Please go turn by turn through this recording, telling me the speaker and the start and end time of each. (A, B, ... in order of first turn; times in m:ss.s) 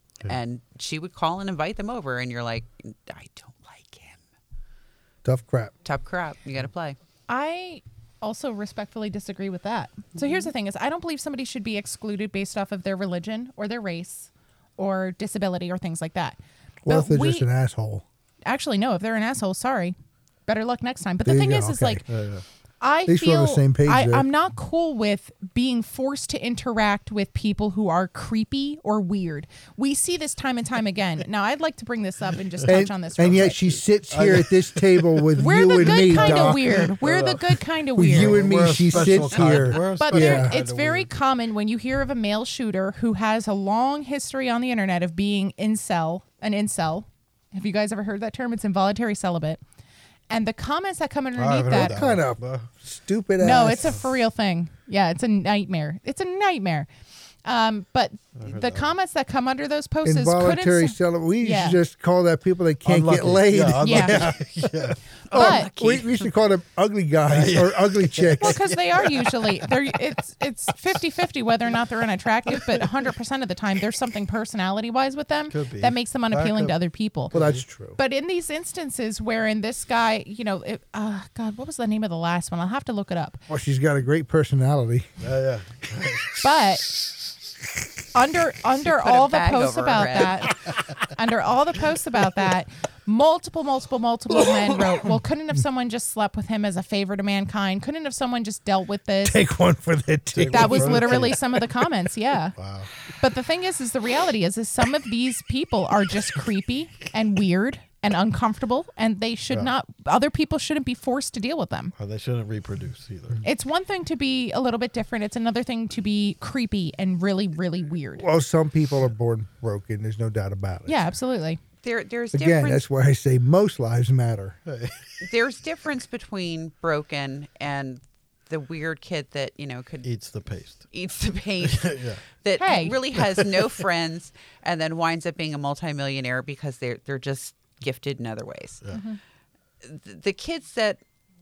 0:00.2-0:04.2 A
0:05.2-0:05.7 B
0:05.8-0:07.0 A
0:07.3-0:17.5 C
0:16.8-0:18.0 B
0:18.4-0:22.0 C
0:21.2-0:22.0 B
0:22.1-0:22.4 D
0:22.8-0:33.6 C
0:23.0-0:24.3 B
0:32.6-0:36.9 B
0:34.1-0:41.1 D
0:35.4-0:39.0 C
0:38.0-0:40.6 B
0:39.7-0:49.6 C
0:50.3-0:51.9 C
0:51.3-0:52.7 D
0:51.7-0:54.0 B
0:53.4-0:56.9 C
0:57.4-1:01.8 C
0:58.4-0:58.9 D
1:00.0-1:08.6 B
1:02.8-1:05.0 D
1:03.8-1:04.2 C
1:05.3-1:06.3 A
1:05.3-1:05.7 C
1:07.3-1:09.7 D
1:08.4-1:17.3 C
1:15.5-1:16.8 D
1:17.3-1:17.6 D
1:17.3-1:18.0 B
1:18.0-1:23.4 C
1:23.5-1:25.2 B
1:25.2-1:26.4 D
1:26.4-1:26.9 C
1:28.1-1:30.6 C
1:28.8-1:30.5 A
1:31.1-1:39.4 C
1:34.3-1:35.1 B
1:39.2-1:41.7 B
1:40.3-1:41.4 D
1:40.5-1:42.5 C
1:42.5-1:42.9 D
1:43.2-1:51.9 C
1:52.0-1:53.4 D
1:53.4-1:58.2 C
1:58.2-2:01.1 B
2:00.8-2:01.6 C
2:01.8-2:02.8 A
2:02.3-2:04.6 B
2:04.6-2:05.2 D
2:05.2-2:10.1 A
2:10.0-2:10.8 D
2:10.9-2:18.8 A
2:11.6-2:12.2 D
2:12.6-2:13.0 C
2:13.1-2:13.8 D
2:18.9-2:19.2 C
2:19.8-2:21.0 A